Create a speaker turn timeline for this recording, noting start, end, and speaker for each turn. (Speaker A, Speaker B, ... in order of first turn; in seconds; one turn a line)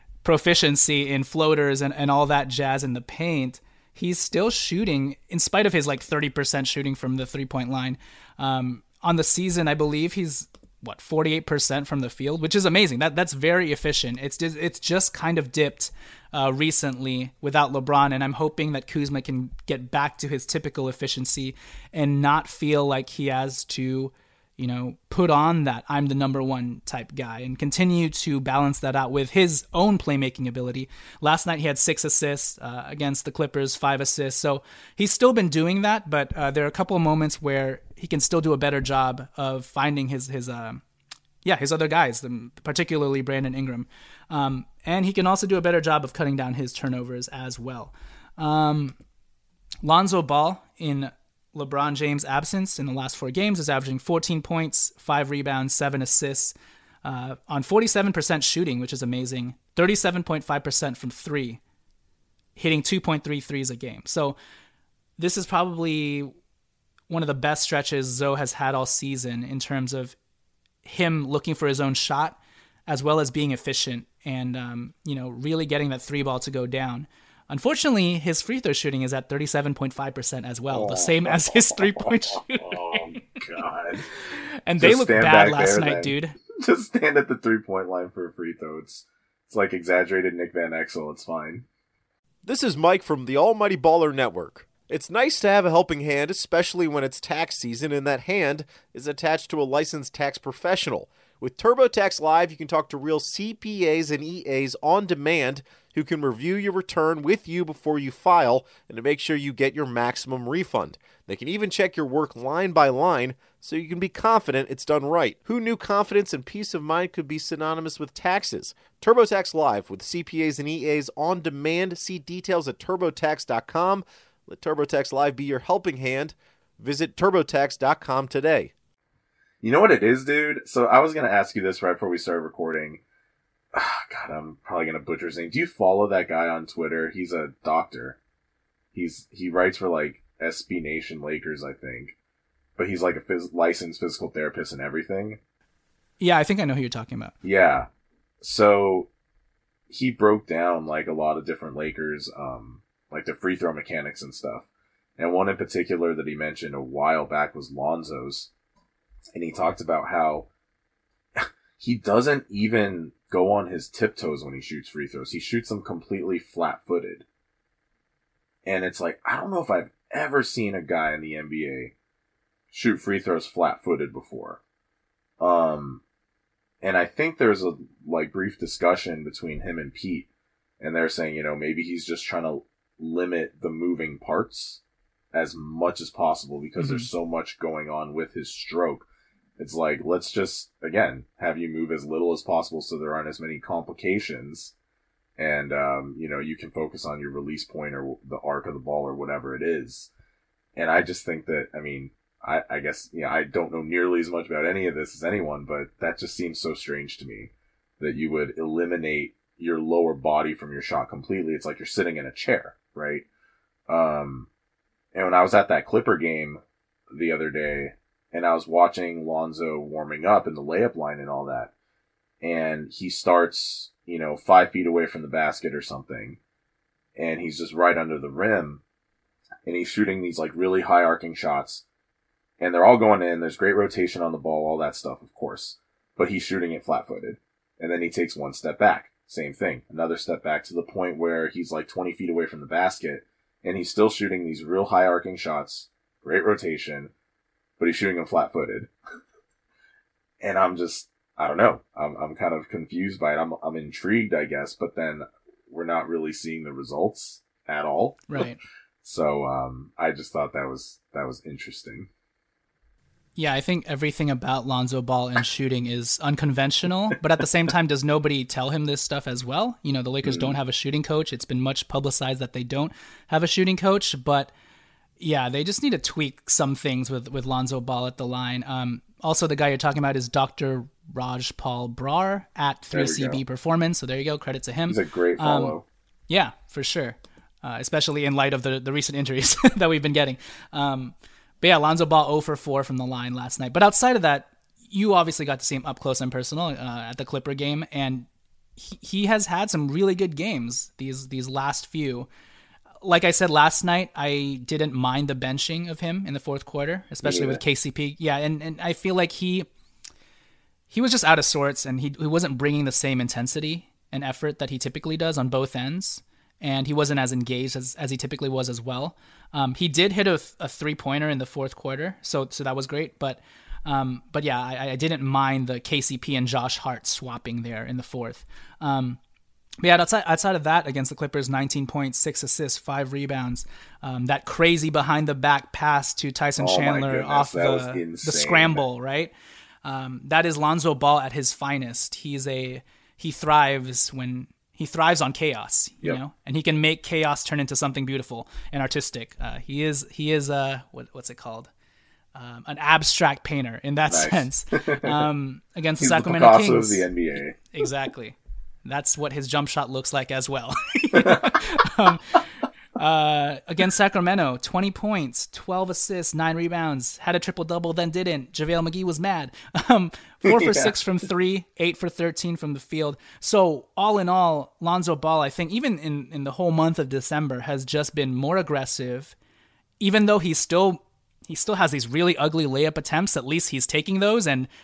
Speaker A: 0.2-40.8
Speaker A: 41.4-48.9
Speaker A: 49.8-61.6
Speaker A: 62.5-64.4
Speaker A: 65.2-66.3
Speaker A: 67.1-70.1
Speaker A: 70.8-83.1
Speaker B: 80.7-84.0
Speaker A: 84.7-86.4
Speaker B: 84.8-91.6
Speaker C: 92.4-128.7
Speaker B: 129.6-133.0
Speaker B: 133.7-138.2
Speaker B: 138.9-142.1
Speaker B: 142.8-145.4
Speaker A: 146.2-147.3
Speaker B: 147.4-147.9
Speaker B: 148.4-149.1
Speaker B: 149.9-154.7
Speaker B: 155.2-158.5
Speaker B: 159.3-160.5
Speaker B: 161.4-167.2
Speaker B: 168.6-171.9
Speaker B: 172.7-174.6
Speaker B: 175.4-176.0
Speaker B: 176.8-180.3
Speaker B: 180.8-184.8
Speaker B: 185.3-189.1
Speaker A: 186.8-187.1
Speaker B: 189.6-194.7
Speaker B: 195.4-200.1
Speaker B: 200.8-213.2
Speaker B: 213.9-214.5
Speaker B: 215.1-221.7
Speaker B: 222.4-226.4
Speaker B: 227.2-228.8
Speaker B: 229.6-231.8
Speaker B: 232.6-247.1
Speaker B: 247.8-248.9
Speaker B: 250.4-258.5
Speaker A: 258.3-258.6
Speaker B: 259.0-262.1
Speaker A: 263.4-274.5
Speaker B: 270.2-270.6
Speaker A: 275.2-298.2
Speaker B: 282.9-283.4
Speaker B: 284.9-285.8
Speaker A: 298.8-302.3
Speaker A: 303.0-309.7
Speaker B: 307.2-307.6
Speaker A: 310.9-329.2
Speaker A: 329.8-339.3
Speaker B: 336.6-338.9
Speaker A: 339.8-351.7
Speaker A: 352.3-357.1
Speaker B: 354.1-355.2
Speaker B: 356.0-357.6
Speaker A: 357.7-362.4
Speaker B: 361.1-361.5
Speaker A: 362.9-379.3
Speaker B: 370.4-371.0
Speaker A: 380.0-384.7